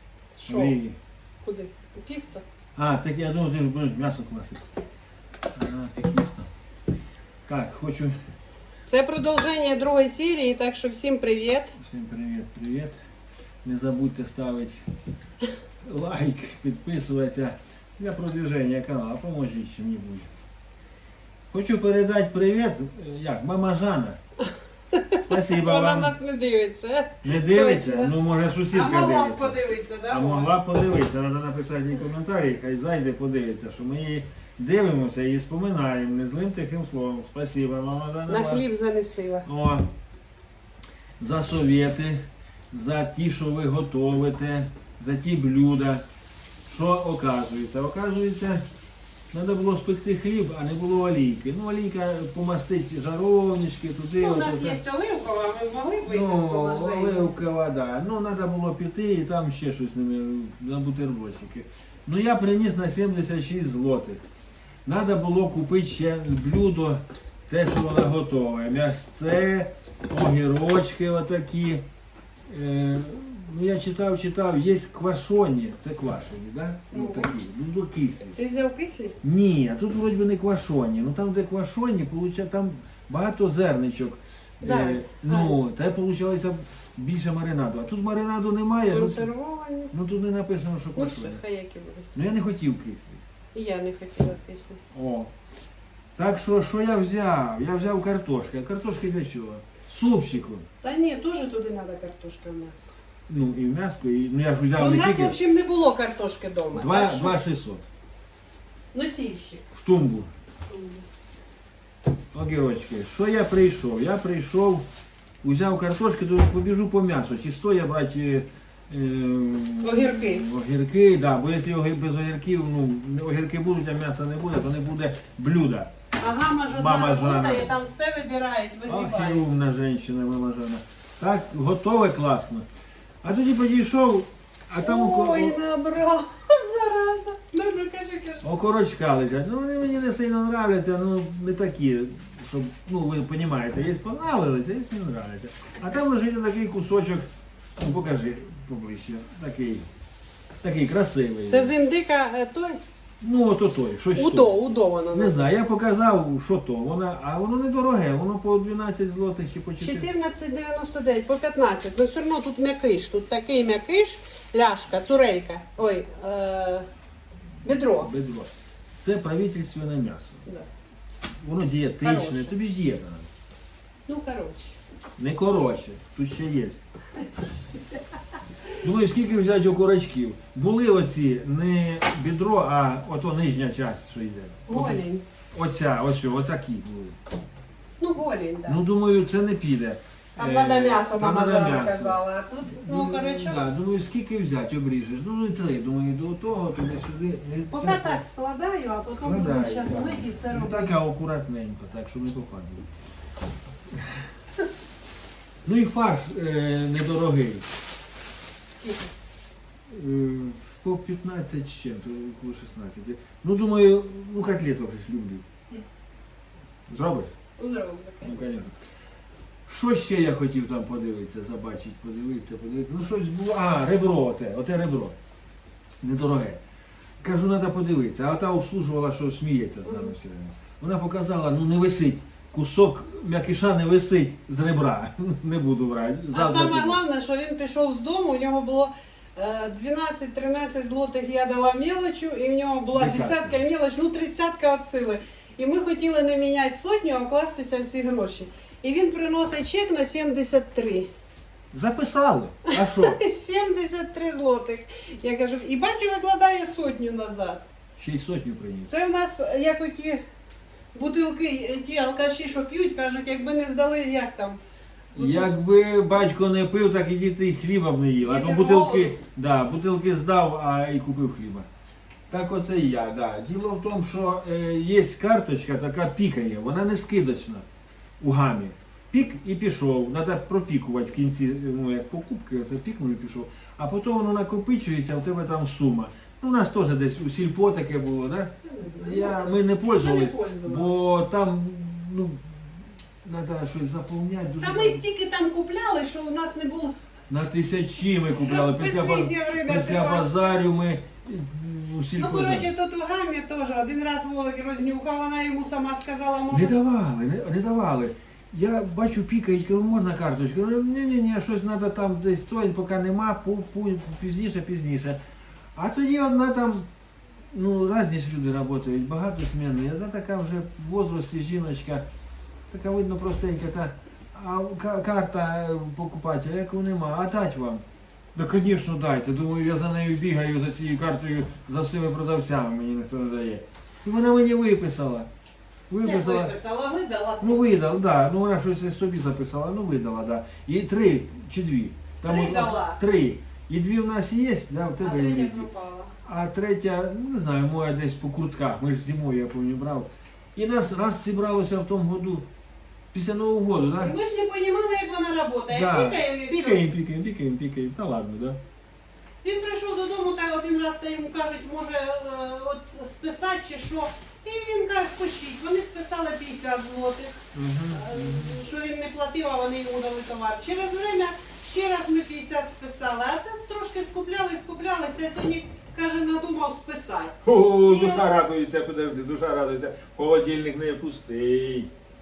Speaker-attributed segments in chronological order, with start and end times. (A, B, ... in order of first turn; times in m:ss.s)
0:00.4-0:00.8 A
0:00.4-0:01.0 B
0:01.4-0:02.4 A
0:02.8-0:04.6 B
0:05.5-0:06.5 B
0:07.5-0:08.2 B
0:08.9-0:11.7 A
0:11.8-0:13.0 B
0:13.6-0:14.8 B
0:15.8-0:20.3 B
0:21.5-0:24.2 B
0:24.9-0:28.1 A
0:25.2-0:26.1 B
0:27.2-0:38.6 B
0:28.7-0:30.6 A
0:38.3-0:39.4 A
0:39.4-0:39.9 B
0:41.2-0:46.0 B
0:46.7-0:48.6 B
0:49.3-0:54.8 B
0:54.2-0:57.3 A
0:56.0-1:04.2 B
1:04.8-1:11.8 B
1:12.5-1:18.4 B
1:16.9-1:17.3 A
1:18.3-1:19.2 A
1:19.2-1:29.3 B
1:24.6-1:25.6 A
1:28.9-1:29.9 A
1:29.9-1:31.4 B
1:30.9-1:32.0 A
1:32.1-1:33.2 B
1:33.5-1:34.8 A
1:34.9-1:35.3 B
1:36.2-1:40.7 B
1:40.8-1:42.9 A
1:43.3-1:45.4 B
1:44.8-1:47.3 A
1:46.7-1:47.8 B
1:48.9-1:49.6 A
1:49.7-1:50.3 B
1:50.7-1:51.0 A
1:52.3-1:54.9 B
1:55.4-2:05.9 B
1:59.8-2:00.4 A
2:06.2-2:09.5 A
2:06.7-2:07.7 B
2:08.9-2:12.7 B
2:13.2-2:15.6 B
2:14.8-2:18.4 A
2:18.4-2:29.9 B
2:30.6-2:31.7 B
2:31.5-2:32.8 A
2:33.2-2:34.5 B
2:34.1-2:35.4 A
2:35.1-2:40.1 B
2:39.8-2:46.8 A
2:47.6-2:48.1 A
2:48.0-2:50.4 B
2:51.4-2:53.3 B
2:52.0-2:52.6 A
2:54.1-2:54.8 A
2:55.2-2:56.8 B
2:58.8-3:07.2 B
3:04.6-3:05.2 A
3:08.0-3:08.8 A
3:08.7-3:12.2 B
3:10.4-3:13.7 A
3:12.7-3:18.2 B
3:17.7-3:20.9 A
3:19.1-3:22.9 B
3:25.6-3:27.7 B
3:28.7-3:29.1 A
3:29.9-3:35.4 B
3:36.9-3:37.3 B
3:37.6-3:38.4 A
3:38.2-3:38.7 B
3:39.6-3:45.1 B
3:46.0-3:46.6 B
3:47.2-3:57.0 B
3:49.8-3:50.1 A
3:56.3-4:11.1 A
4:02.9-4:03.6 B
4:11.7-4:13.2 B
4:12.7-4:17.6 A
4:18.0-4:18.9 B
4:18.8-4:20.2 A
4:20.9-4:24.6 A
4:25.1-4:31.7 B
4:25.1-4:25.5 A
4:28.2-4:29.2 A
4:32.3-4:37.6 B
4:38.2-4:52.7 B
4:48.6-4:51.0 A
4:53.2-4:55.0 B
4:54.6-4:56.9 A
4:57.3-5:02.7 B
4:58.3-5:00.6 A
5:02.2-5:06.8 A
5:06.5-5:15.2 B
5:15.7-5:16.9 B
5:17.5-5:22.0 B
5:22.7-5:27.8 B
5:28.3-5:35.3 B
5:35.9-5:36.5 B
5:36.0-5:37.7 A
5:37.4-5:45.7 B
5:42.2-5:43.0 A
5:45.0-5:46.1 A
5:46.2-5:52.5 B
5:53.1-5:54.1 B
5:54.0-5:56.8 A
5:55.7-5:58.6 B
5:59.4-6:07.4 A
6:07.5-6:08.6 B
6:07.9-6:18.3 A
6:17.4-6:21.9 B